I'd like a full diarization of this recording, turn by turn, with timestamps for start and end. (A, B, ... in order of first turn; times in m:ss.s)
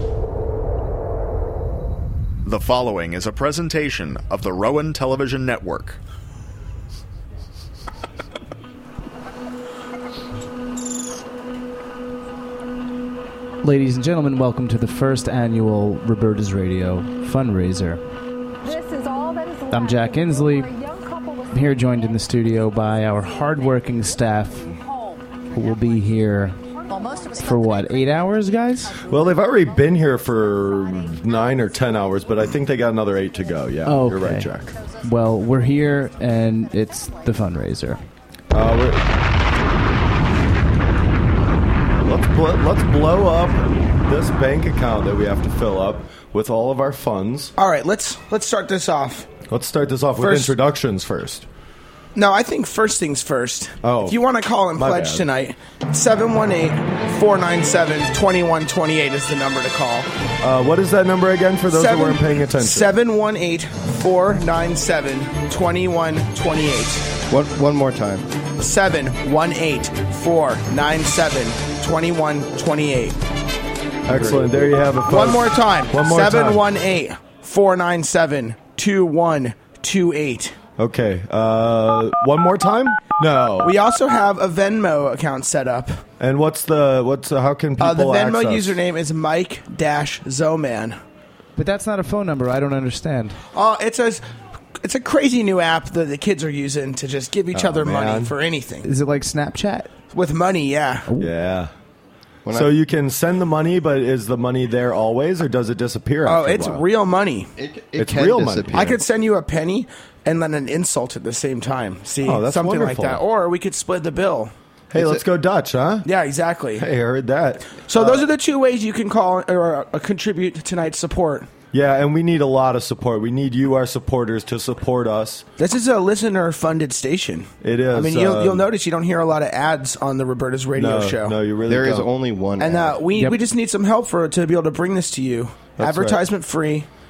0:02.4-0:06.0 A
0:13.6-0:18.0 B
0:18.6-0:21.4 C
0:19.7-0:20.8 B
0:21.5-0:24.8 B
0:25.5-0:26.6 B
0:26.9-0:27.3 C
0:27.3-0:29.0 B
0:29.0-0:34.7 D
0:33.8-0:38.0 B
0:38.5-0:39.1 D
0:42.0-0:47.5 D
0:47.6-0:49.3 E
0:49.5-0:51.5 D
0:50.2-0:50.5 E
0:52.2-1:00.1 E
0:53.8-0:54.2 D
0:54.8-0:55.2 D
1:00.4-1:02.9 D
1:01.7-1:07.2 E
1:07.3-1:08.3 F
1:08.6-1:13.2 E
1:14.1-1:16.7 D
1:14.1-1:14.4 E
1:15.0-1:20.6 E
1:20.8-1:23.7 D
1:23.6-1:26.0 E
1:26.2-1:28.8 D
1:27.8-1:31.0 E
1:31.6-1:33.4 B
1:33.5-1:34.2 E
1:34.8-1:38.9 E
1:37.5-1:38.3 D
1:38.8-1:39.9 B
1:40.1-1:41.1 E
1:41.2-1:41.7 D
1:42.4-1:42.7 F
1:42.5-1:46.8 D
1:46.2-1:47.5 E
1:47.6-1:49.0 F
1:48.0-1:49.0 D
1:48.7-1:54.5 E
1:52.2-1:53.2 D
1:54.9-1:56.1 D
1:55.0-1:55.2 F
1:56.0-1:56.9 E
1:56.8-1:58.2 D
1:57.9-2:01.5 E
2:01.7-2:05.5 D
2:05.6-2:11.4 E
2:07.6-2:08.7 D
2:10.8-2:12.1 D
2:11.6-2:13.0 F
2:12.6-2:16.9 E
2:13.1-2:13.4 B
2:15.8-2:16.2 D